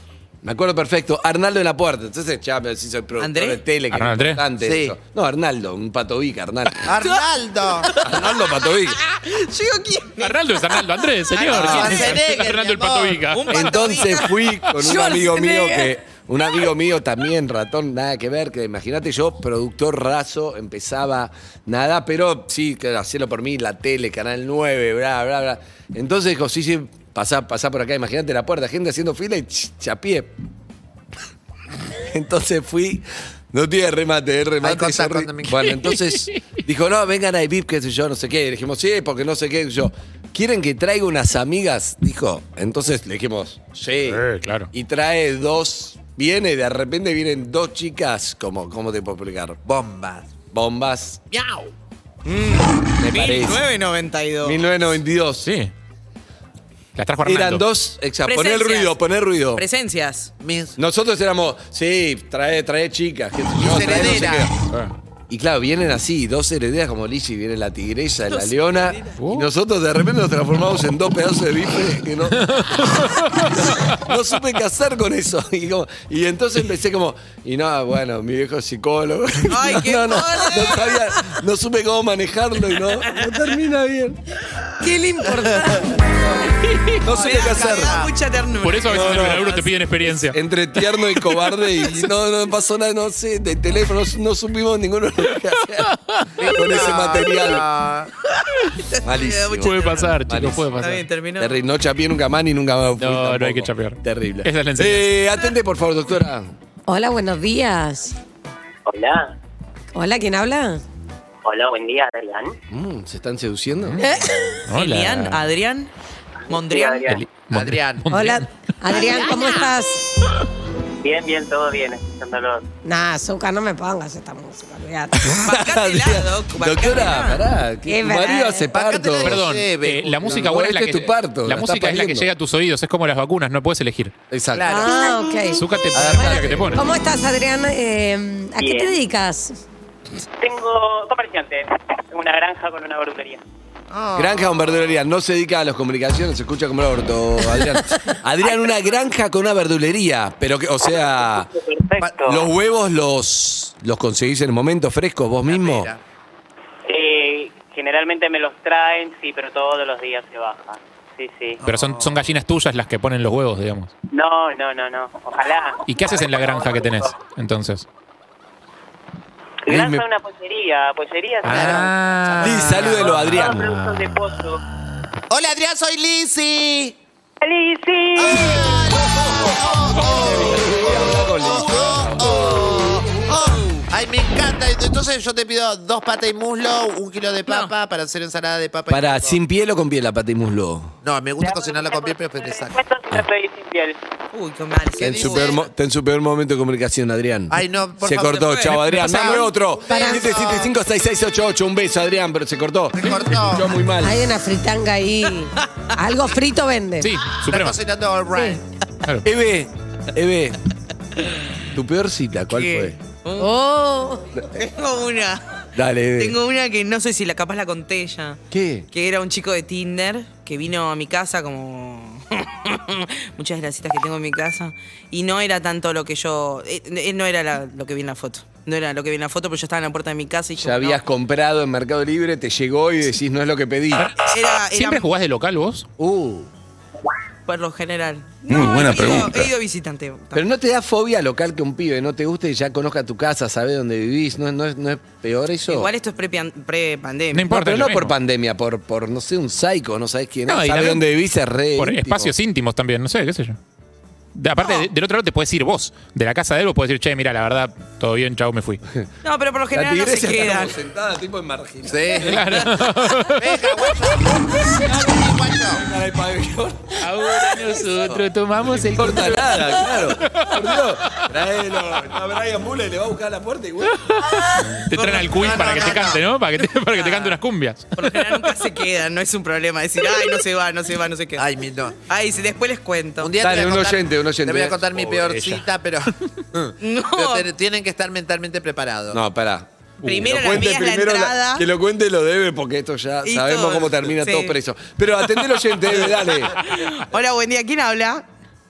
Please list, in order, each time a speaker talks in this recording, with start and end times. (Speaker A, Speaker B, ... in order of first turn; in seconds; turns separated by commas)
Speaker A: 0.4-6.9, Speaker B: 3.2-3.6, Speaker C: 3.9-4.4, Speaker D: 4.6-5.0, Speaker D: 6.8-7.9, Speaker B: 7.8-10.8, Speaker A: 8.0-9.0, Speaker C: 10.2-13.7, Speaker D: 11.3-13.3, Speaker A: 11.5-12.1, Speaker B: 13.3-14.4, Speaker A: 13.5-30.3, Speaker E: 14.8-15.9, Speaker A: 31.9-49.6, Speaker D: 34.6-35.7, Speaker C: 35.6-36.4, Speaker C: 44.1-44.7, Speaker D: 49.6-50.3, Speaker A: 50.5-51.2, Speaker D: 51.3-51.7, Speaker B: 52.2-54.6, Speaker A: 53.0-53.7, Speaker A: 54.4-55.5, Speaker C: 55.4-55.7, Speaker C: 57.0-57.6, Speaker A: 57.2-59.6, Speaker B: 58.2-59.0, Speaker B: 59.5-60.3, Speaker D: 60.4-60.8, Speaker A: 60.8-64.5, Speaker D: 63.6-64.5, Speaker C: 64.6-64.9, Speaker A: 65.3-84.2, Speaker B: 68.3-69.1, Speaker C: 69.2-69.5, Speaker C: 72.4-74.0, Speaker B: 79.5-81.0, Speaker B: 83.0-83.4, Speaker E: 84.8-86.1, Speaker D: 85.2-85.9, Speaker C: 86.5-87.0, Speaker A: 87.0-88.0, Speaker D: 87.1-88.1, Speaker B: 87.1-89.7, Speaker C: 88.6-90.4, Speaker A: 88.9-89.5, Speaker A: 90.3-97.7, Speaker C: 95.9-96.3, Speaker D: 96.4-98.1, Speaker B: 98.9-100.1, Speaker A: 99.0-100.7, Speaker C: 99.6-101.1, Speaker B: 100.8-101.5, Speaker A: 101.4-106.5, Speaker C: 103.0-105.1, Speaker E: 106.9-108.2, Speaker F: 108.9-109.3, Speaker E: 110.0-110.8, Speaker F: 111.5-112.5, Speaker A: 112.7-114.0, Speaker C: 113.8-114.2, Speaker E: 114.0-114.6, Speaker C: 114.7-115.4, Speaker B: 114.7-115.9, Speaker B: 116.5-117.1, Speaker F: 116.5-117.2, Speaker C: 117.1-118.5, Speaker D: 117.5-118.1, Speaker E: 118.1-120.0, Speaker D: 118.9-119.6, Speaker F: 121.0-122.6, Speaker E: 122.8-125.3, Speaker A: 125.2-129.4, Speaker B: 125.4-127.5, Speaker E: 127.9-128.7, Speaker D: 128.7-130.5, Speaker C: 129.2-134.1, Speaker A: 130.3-132.3, Speaker A: 134.3-134.9, Speaker D: 134.5-135.2, Speaker E: 134.7-135.7, Speaker C: 135.5-136.8, Speaker A: 135.9-136.8, Speaker E: 136.6-139.6, Speaker F: 138.6-139.0, Speaker F: 140.4-143.4, Speaker D: 143.9-144.8, Speaker A: 144.2-151.5, Speaker F: 151.5-152.4, Speaker A: 152.2-155.9, Speaker D: 155.5-156.0, Speaker F: 156.9-161.6, Speaker D: 161.6-162.3, Speaker C: 161.6-163.9, Speaker F: 164.1-167.2, Speaker C: 165.9-167.9, Speaker F: 169.7-174.6, Speaker A: 169.7-170.0, Speaker C: 171.4-174.1, Speaker D: 171.5-171.9, Speaker A: 172.4-173.8, Speaker D: 172.5-173.1, Speaker D: 175.3-177.0, Speaker F: 177.4-178.9, Speaker D: 178.2-189.4, Speaker A: 179.2-182.9, Speaker B: 187.5-187.7, Speaker A: 188.9-191.0, Speaker D: 191.0-192.8, Speaker F: 191.4-194.0, Speaker B: 194.3-195.6, Speaker D: 195.0-195.6, Speaker A: 195.0-204.3, Speaker D: 197.5-200.7, Speaker C: 198.9-199.5, Speaker E: 199.9-200.4, Speaker D: 202.9-203.7, Speaker E: 204.0-207.2, Speaker B: 205.6-205.9, Speaker C: 207.0-207.8, Speaker D: 207.5-208.6, Speaker E: 208.3-208.6, Speaker A: 209.2-210.6, Speaker A: 211.7-213.0, Speaker B: 212.5-213.5, Speaker E: 213.4-214.2, Speaker B: 214.5-215.6, Speaker A: 215.8-216.4, Speaker B: 216.2-231.0, Speaker A: 218.5-218.9, Speaker A: 230.6-234.1, Speaker C: 234.0-235.9, Speaker B: 234.3-235.1, Speaker A: 236.0-236.5, Speaker B: 237.5-240.4, Speaker A: 238.5-239.4, Speaker A: 240.3-245.9, Speaker B: 245.7-247.5, Speaker C: 247.3-248.1, Speaker A: 247.5-252.3, Speaker C: 250.5-251.1, Speaker C: 251.8-253.6, Speaker C: 254.3-258.8, Speaker B: 259.2-260.8, Speaker A: 259.7-263.2, Speaker D: 261.9-262.7, Speaker C: 262.3-263.4, Speaker D: 263.3-265.9, Speaker A: 264.7-265.1, Speaker A: 265.7-274.1, Speaker C: 267.0-270.6, Speaker C: 274.1-278.3, Speaker D: 274.9-276.2, Speaker B: 277.0-277.4, Speaker B: 278.0-281.5, Speaker D: 281.4-282.0, Speaker B: 282.1-283.3, Speaker D: 283.2-289.2, Speaker A: 283.4-285.4, Speaker C: 285.1-285.6, Speaker B: 286.8-287.5, Speaker A: 289.1-296.6, Speaker B: 290.0-291.6, Speaker C: 290.1-290.3, Speaker B: 293.2-294.6, Speaker B: 295.4-298.2